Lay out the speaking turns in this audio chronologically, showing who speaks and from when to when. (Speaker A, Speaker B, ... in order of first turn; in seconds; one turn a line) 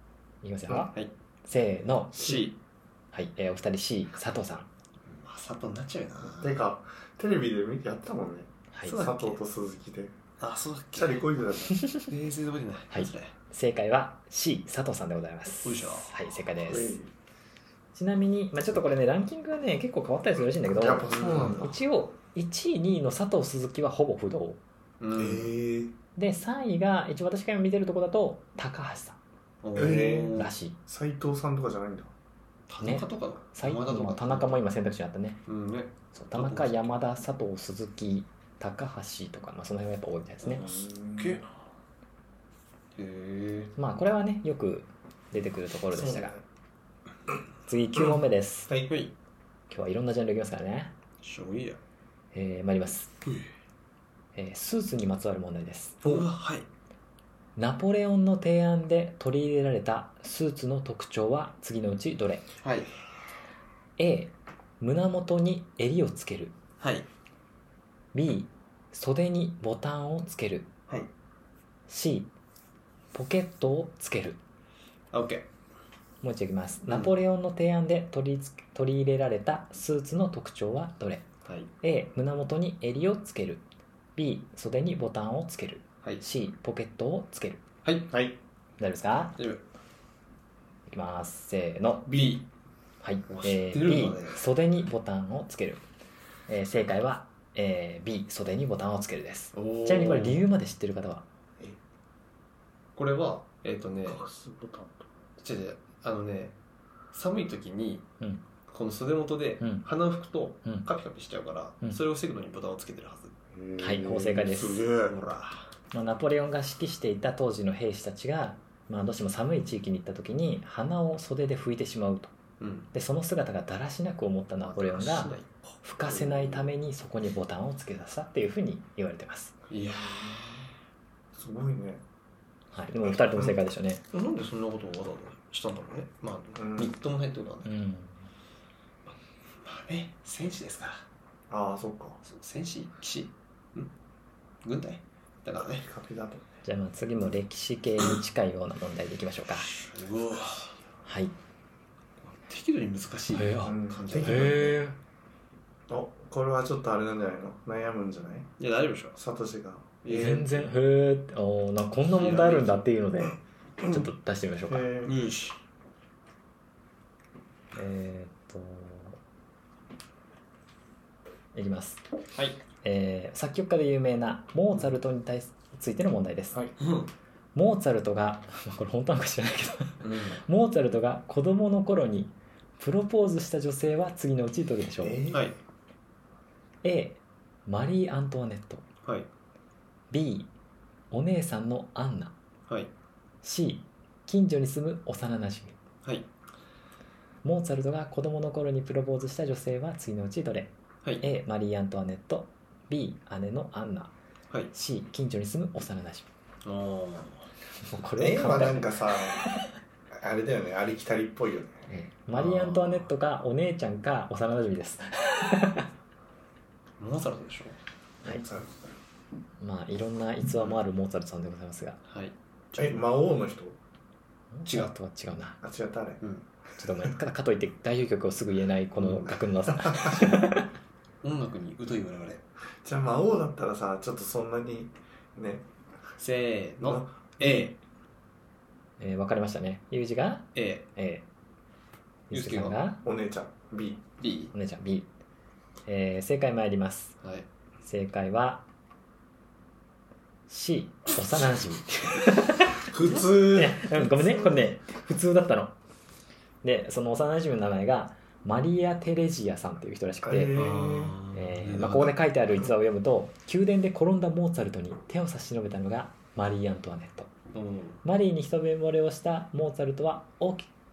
Speaker A: 0.4-0.9
Speaker A: 1.4-2.5
Speaker B: 2.1-2.5
Speaker A: 3.1-4.7
Speaker B: 5.0-6.6
Speaker C: 6.2-10.2
Speaker A: 8.7-9.0
Speaker B: 8.8-9.4
Speaker B: 10.4-11.3
Speaker C: 10.9-11.8
Speaker B: 12.1-13.3
Speaker A: 12.9-17.0
Speaker B: 15.6-16.1
Speaker C: 16.7-17.1
Speaker A: 17.9-24.6
Speaker C: 20.7-21.8
Speaker B: 21.1-21.6
Speaker B: 25.0-25.5
Speaker C: 25.1-25.9
Speaker A: 26.2-29.2
Speaker B: 29.6-30.5
Speaker C: 29.8-32.1
Speaker A: 30.3-30.8
Speaker B: 32.7-34.6
Speaker A: 32.8-35.4
Speaker B: 35.5-37.0
Speaker A: 36.1-40.6
Speaker B: 40.5-41.5
Speaker C: 40.5-41.4
Speaker B: 43.0-43.7
Speaker A: 43.8-46.4
Speaker C: 45.9-46.4
Speaker A: 47.7-48.7
Speaker B: 48.9-49.1
Speaker A: 49.7-50.9
Speaker B: 51.2-51.8
Speaker A: 52.3-53.1
Speaker A: 54.4-56.0
Speaker B: 56.0-56.7
Speaker A: 57.6-62.5
Speaker B: 62.6-62.9
Speaker A: 64.0-66.5
Speaker B: 66.8-67.1
Speaker A: 68.1-70.7
Speaker A: 71.9-72.3
Speaker A: 73.1-74.4
Speaker B: 75.1-75.5
Speaker A: 76.2-81.3
Speaker B: 81.5-81.7
Speaker A: 81.8-83.6
Speaker A: 84.2-87.6
Speaker B: 87.8-88.1
Speaker C: 88.1-88.4
Speaker A: 88.8-89.4
Speaker A: 90.9-92.3
Speaker B: 92.1-92.4
Speaker A: 93.0-95.8
Speaker B: 93.3-94.4
Speaker A: 96.5-101.2
Speaker B: 99.5-100.5
Speaker B: 103.0-104.2
Speaker C: 104.1-105.1
Speaker B: 105.4-106.5
Speaker B: 107.1-108.1
Speaker B: 108.7-113.3
Speaker C: 113.5-115.2
Speaker A: 113.8-114.9
Speaker B: 115.1-115.7
Speaker A: 115.9-122.3
Speaker B: 122.6-122.9
Speaker A: 122.9-129.6
Speaker B: 124.7-125.5
Speaker C: 126.1-126.7
Speaker B: 129.7-130.7
Speaker C: 129.9-130.4
Speaker C: 131.3-132.0
Speaker A: 132.7-134.0
Speaker B: 134.1-137.7
Speaker C: 136.6-136.9
Speaker A: 137.7-138.2
Speaker B: 139.1-141.0
Speaker C: 141.5-142.2
Speaker B: 142.2-143.9
Speaker B: 144.6-145.8
Speaker C: 145.8-146.5
Speaker A: 146.6-149.7
Speaker B: 149.8-150.8
Speaker A: 151.1-151.3
Speaker B: 152.2-154.8
Speaker A: 153.3-155.0
Speaker C: 153.6-154.7
Speaker C: 155.9-158.5
Speaker B: 158.6-159.2
Speaker C: 159.2-160.0
Speaker B: 160.0-160.7
Speaker A: 160.1-164.9
Speaker B: 162.2-162.8
Speaker C: 164.7-165.2
Speaker B: 165.1-165.6
Speaker A: 167.8-169.2
Speaker A: 171.5-172.0
Speaker A: 172.8-176.6
Speaker B: 176.8-177.1
Speaker A: 177.6-185.2
Speaker B: 180.0-180.4
Speaker C: 185.0-185.5
Speaker B: 185.3-185.6
Speaker A: 186.8-188.8
Speaker A: 190.1-190.5
Speaker A: 191.1-192.3
Speaker A: 193.4-195.8
Speaker A: 197.4-204.1
Speaker A: 204.7-206.3
Speaker B: 206.6-207.5
Speaker A: 207.8-209.5
Speaker C: 208.2-209.5
Speaker C: 210.1-211.9
Speaker A: 211.9-215.9
Speaker B: 212.3-213.1
Speaker B: 217.0-217.8
Speaker C: 218.2-218.9
Speaker A: 219.6-222.0
Speaker B: 222.1-222.8
Speaker C: 222.7-223.8
Speaker A: 224.5-225.6
Speaker C: 225.6-226.2
Speaker A: 226.8-230.7
Speaker C: 229.8-230.2
Speaker B: 231.2-232.4
Speaker C: 232.8-235.7
Speaker B: 236.2-237.8
Speaker C: 236.8-237.7
Speaker A: 239.0-241.2
Speaker B: 240.6-240.9
Speaker B: 242.3-242.8
Speaker A: 242.3-243.0
Speaker C: 243.0-244.0
Speaker B: 244.2-244.5
Speaker A: 244.5-245.1
Speaker A: 245.9-247.2
Speaker B: 247.2-247.5
Speaker A: 247.8-248.6
Speaker A: 250.5-255.8
Speaker C: 252.8-254.7
Speaker A: 256.6-260.6
Speaker C: 260.2-261.2
Speaker B: 260.5-262.2
Speaker A: 261.3-267.3
Speaker B: 267.5-268.0
Speaker A: 268.0-270.7